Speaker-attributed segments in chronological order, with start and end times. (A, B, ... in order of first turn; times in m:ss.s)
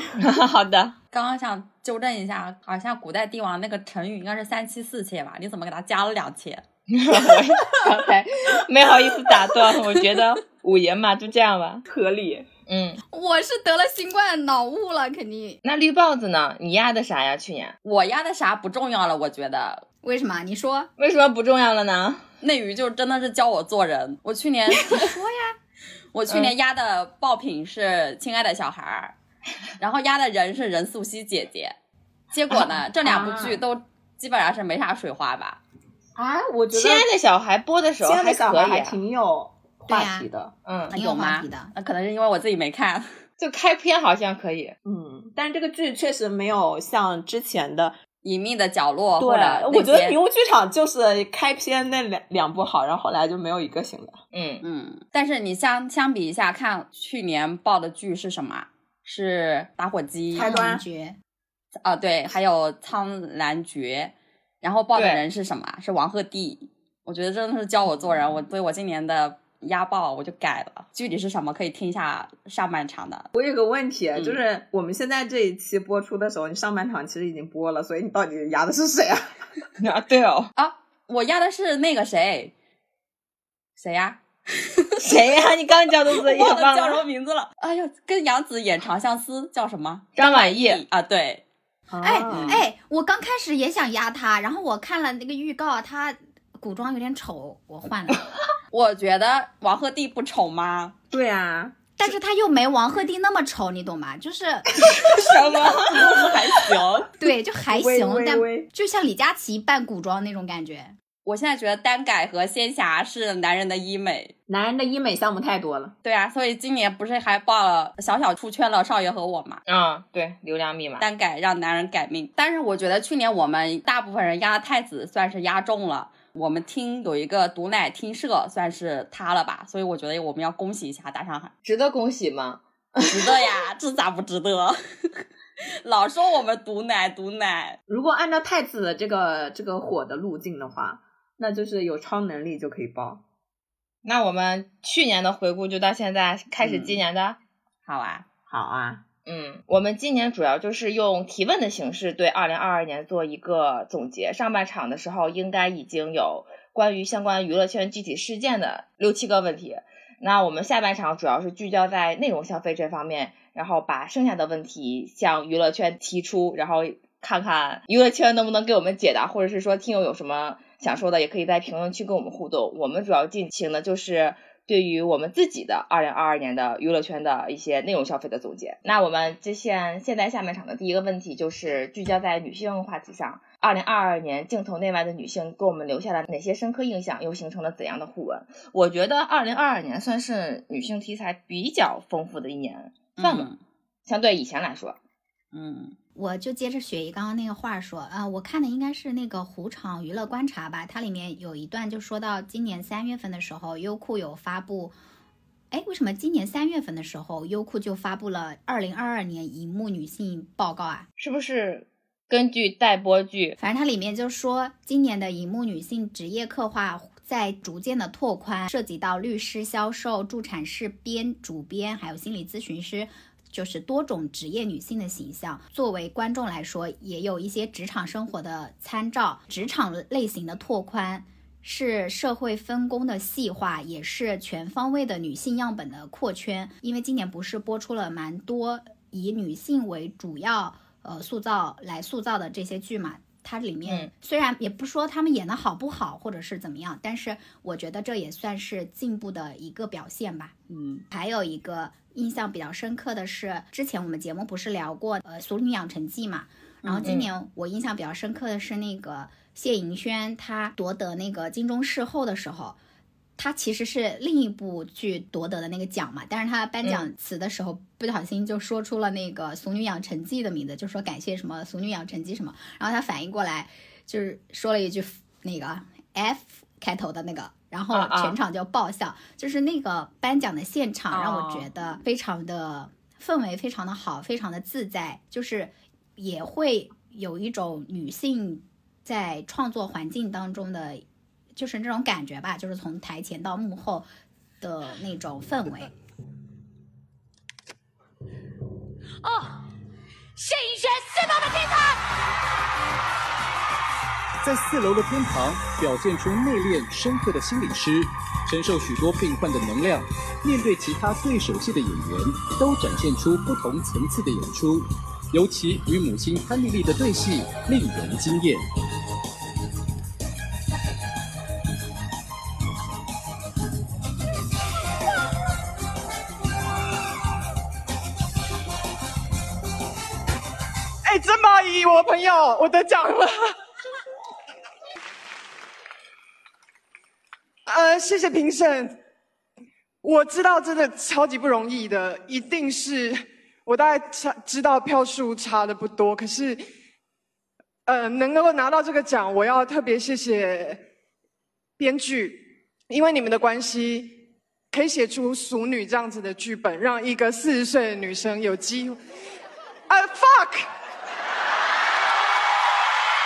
0:00.2-0:01.0 A
0:01.1-0:06.6 B
0:06.9-0:11.8 A
0:11.9-0:12.5 C
0:12.7-0:13.0 A
0:13.1-0:15.6 D
0:15.6-0:17.8 A
0:17.8-0:19.8 B
0:20.0-0:20.9 D
0:21.0-0:22.2 A
0:22.4-0:25.1 B
0:24.8-0:25.6 D
0:26.1-0:29.1 B
0:29.8-0:31.8 B
0:32.3-0:35.6 B
0:32.5-0:33.6 C
0:36.1-0:37.1 C
0:36.7-0:39.0 A
0:38.0-0:40.5 C
0:39.9-0:40.3 D
0:40.6-0:40.9 A
0:40.9-0:41.7 D
0:40.9-0:43.1 B
0:43.4-0:44.7 A
0:44.8-0:48.0 C
0:48.2-0:50.2 B
0:49.2-0:54.2 C
0:54.3-0:54.6 A
0:54.6-1:00.5 B
1:00.3-1:00.8 C
1:00.3-1:01.2 D
1:01.8-1:13.3 B
1:04.9-1:05.2 A
1:13.3-1:19.3 C
1:19.8-1:20.5 A
1:20.5-1:22.5 B
1:23.8-1:25.0 B
1:25.0-1:27.0 A
1:26.4-1:27.5 C
1:27.5-1:31.4 B
1:30.2-1:30.8 A
1:31.9-1:32.6 C
1:32.0-1:38.2 D
1:32.3-1:32.6 B
1:38.7-1:40.9 B
1:41.1-1:41.8 C
1:42.0-1:45.4 D
1:45.0-1:46.7 A
1:46.0-1:46.9 B
1:47.2-1:50.9 D
1:47.7-1:48.7 C
1:51.2-1:54.3 B
1:54.5-1:55.9 C
1:56.0-1:59.6 B
1:59.7-2:01.0 A
2:01.0-2:11.5 B
2:11.6-2:13.4 A
2:13.0-2:15.2 B
2:15.8-2:17.8 B
2:17.9-2:23.2 C
2:24.0-2:27.4 A
2:26.6-2:27.0 B
2:27.8-2:28.2 B
2:28.5-2:29.0 C
2:29.2-3:13.5 A
3:13.2-3:13.6 B
3:14.0-3:15.0 A
3:15.5-3:15.9 B
3:16.1-3:25.0 D
3:25.7-3:31.0 D
3:31.2-3:33.6 A
3:33.6-4:10.5 D
4:10.7-4:11.0 B
4:11.1-4:22.8 D
4:16.8-4:17.1 B
4:17.0-4:17.3 A
4:23.4-4:51.0 D
4:37.9-4:38.4 A
4:41.1-4:41.4 A
4:51.5-4:54.1 D
4:54.6-4:55.9 D
4:59.2-4:59.6 E
5:00.4-5:02.0 E
5:04.4-5:18.7 F
5:31.0-5:33.5 G
5:37.7-5:39.0 G
5:40.0-5:46.6 G
5:47.8-5:50.8 G
5:51.8-5:59.0 G
5:59.9-6:00.7 G